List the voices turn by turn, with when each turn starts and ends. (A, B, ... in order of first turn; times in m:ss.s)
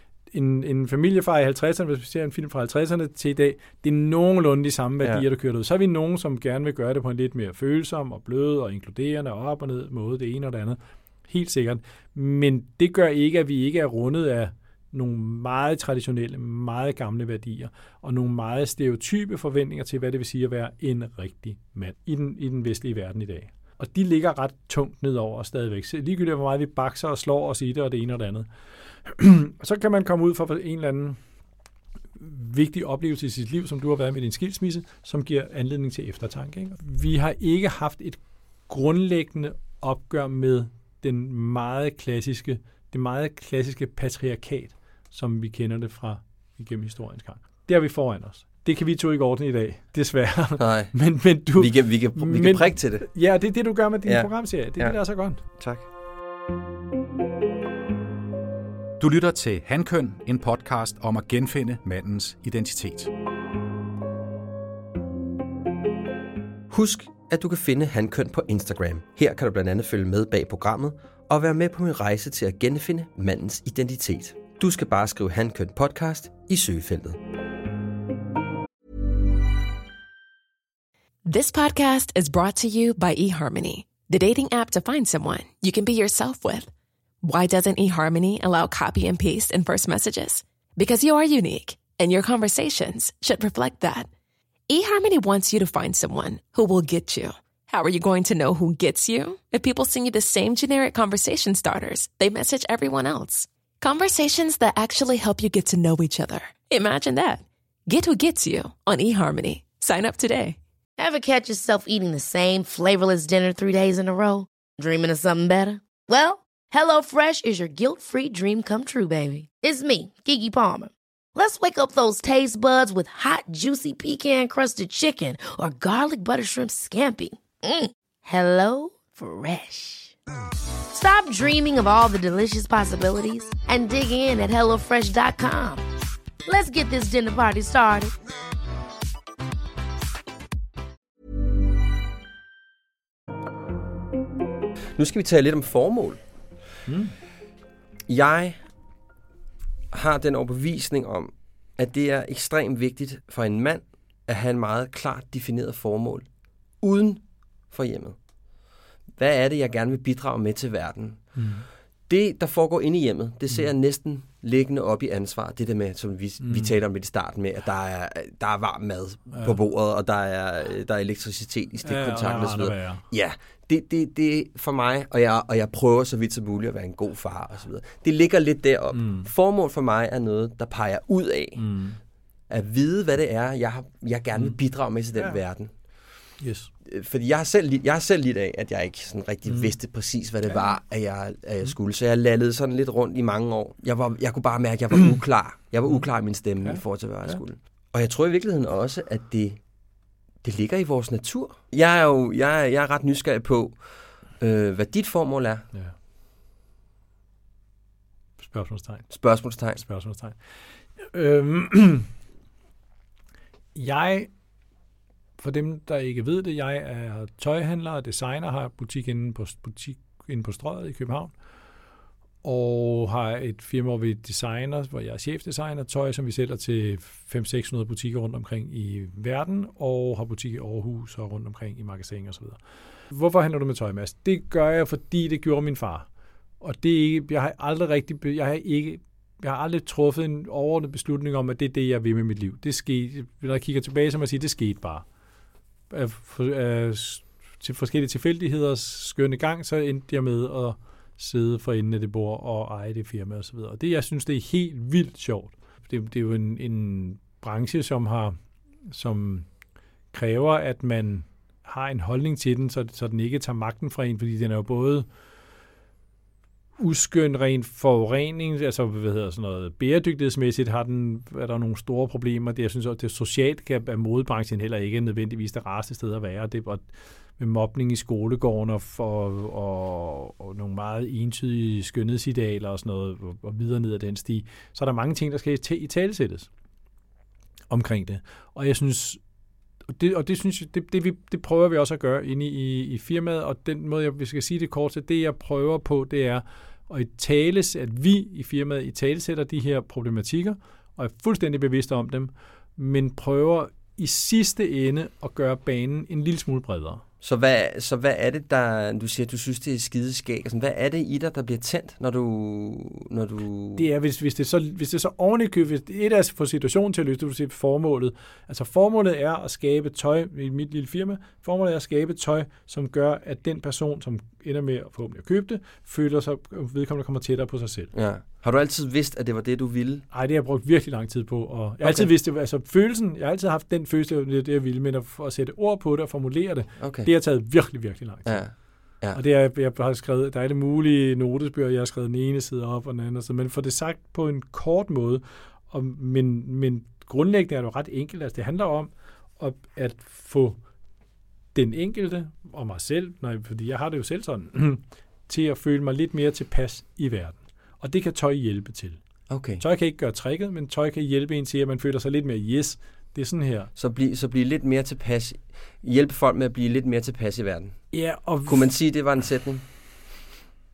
0:00.3-0:28.5 A
0:29.0-0:31.2 A
0:32.2-0:55.4 A
0:50.6-0:53.1 B
0:54.0-0:55.9 B
0:59.0-1:03.1 C
1:06.7-1:17.2 B
1:21.3-1:26.7 D
1:27.2-1:34.1 D
1:34.7-1:50.6 D
1:51.0-2:10.2 E
2:10.9-2:15.8 E
2:16.5-2:18.1 E
2:25.0-2:26.2 B
2:26.9-2:27.2 A
2:28.1-2:28.6 B
2:29.9-2:36.3 B
2:36.8-2:38.2 B
2:39.2-2:41.5 B
2:41.4-2:41.7 A
2:42.1-3:01.7 B
2:46.4-2:46.8 A
2:49.3-2:49.6 A
2:51.8-2:53.0 A
2:58.9-2:59.3 A
3:01.6-3:02.0 A
3:02.5-3:05.7 B
3:06.4-3:06.7 A
3:06.8-3:19.6 B
3:09.5-3:09.8 A
3:15.9-3:17.4 A
3:20.4-3:25.7 B
3:28.4-3:29.2 A
3:29.1-3:29.8 B
3:29.7-3:32.1 A
3:33.8-3:34.3 A
3:35.4-3:41.3 A
3:42.4-3:56.1 A
3:56.6-4:05.1 A
4:05.9-4:18.4 A
4:18.9-4:19.5 A
4:20.1-4:25.1 A
4:26.8-4:36.9 A
4:37.4-4:46.5 A
4:47.7-4:49.2 A
4:49.9-5:07.0 A
5:07.2-5:13.9 B
5:13.8-5:27.9 A
5:27.9-5:30.1 B
5:30.1-5:50.6 A
5:31.8-5:32.1 B
5:36.8-5:37.1 B
5:38.2-5:39.2 B
5:51.6-5:59.0 A
5:59.3-5:59.6 B
5:59.6-6:03.7 A
6:03.8-6:09.6 B
6:07.9-6:08.8 A